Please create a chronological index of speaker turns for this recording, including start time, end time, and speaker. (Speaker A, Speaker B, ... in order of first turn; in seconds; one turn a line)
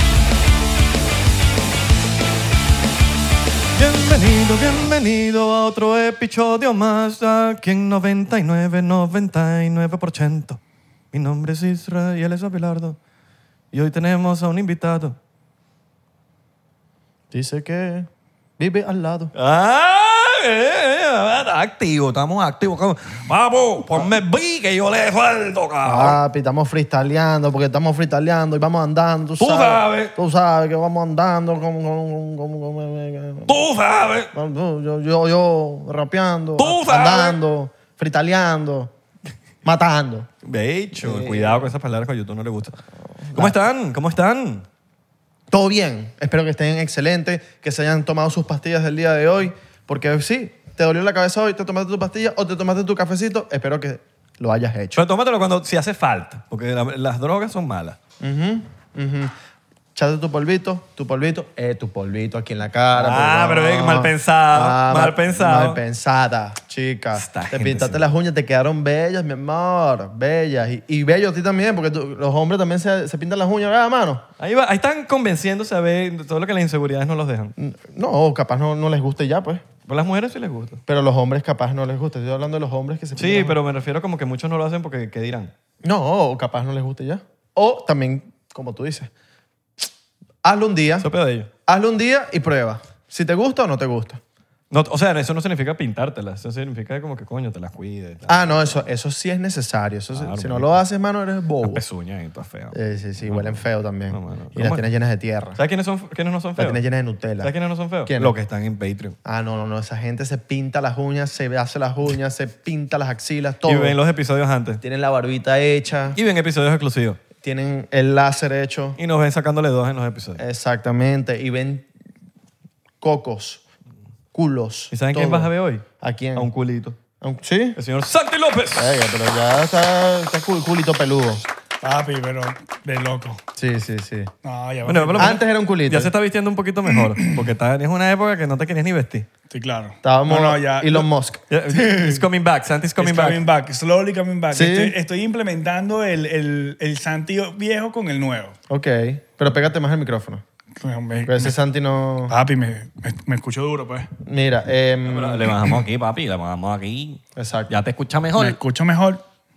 Speaker A: 3.8-10.6
Speaker A: 11.1-13.0
Speaker A: 13.7-15.2
Speaker B: 17.3-19.3
Speaker A: 19.3-26.2
Speaker B: 25.8-33.6
Speaker A: 29.4-30.1
Speaker A: 33.5-34.3
Speaker B: 34.3-38.9
Speaker A: 36.6-37.4
Speaker B: 39.6-40.3
Speaker A: 40.4-42.8
Speaker B: 41.0-41.7
Speaker B: 43.2-43.6
Speaker A: 43.3-44.7
Speaker B: 45.5-55.0
Speaker A: 55.0-58.0
Speaker B: 58.2-59.3
Speaker B: 60.0-74.2
Speaker A: 62.9-65.8
Speaker A: 67.1-68.0
Speaker A: 74.4-77.5
Speaker B: 77.6-79.6
Speaker A: 79.9-80.8
Speaker B: 80.9-83.6
Speaker A: 83.2-85.5
Speaker B: 85.8-89.1
Speaker B: 90.4-91.1
Speaker A: 91.0-91.5
Speaker B: 91.7-94.2
Speaker A: 94.7-98.8
Speaker B: 98.3-101.8
Speaker A: 100.1-100.8
Speaker A: 101.6-104.9
Speaker B: 102.7-105.6
Speaker A: 105.6-106.8
Speaker B: 106.6-107.5
Speaker A: 107.4-109.2
Speaker B: 108.0-108.3
Speaker B: 109.2-114.0
Speaker A: 113.7-114.8
Speaker B: 114.8-116.2
Speaker A: 116.2-117.2
Speaker B: 117.4-119.0
Speaker A: 119.0-120.4
Speaker B: 120.4-121.9
Speaker B: 123.0-123.6
Speaker B: 124.3-126.5
Speaker A: 124.9-127.0
Speaker B: 127.2-127.8
Speaker A: 127.8-128.9
Speaker B: 128.8-131.4
Speaker C: 131.8-133.4
Speaker B: 133.6-134.3
Speaker C: 134.4-135.4
Speaker A: 134.8-139.3
Speaker B: 135.2-136.1
Speaker C: 137.0-137.4
Speaker C: 139.5-141.1
Speaker B: 140.0-141.4
Speaker A: 141.5-143.4
Speaker C: 141.8-142.2
Speaker C: 143.0-148.6
Speaker B: 144.5-144.9
Speaker B: 148.7-150.4
Speaker C: 150.8-151.5
Speaker B: 151.3-152.3
Speaker C: 152.3-154.1
Speaker B: 154.2-155.5
Speaker A: 155.0-158.6
Speaker B: 157.4-157.7
Speaker C: 158.4-159.2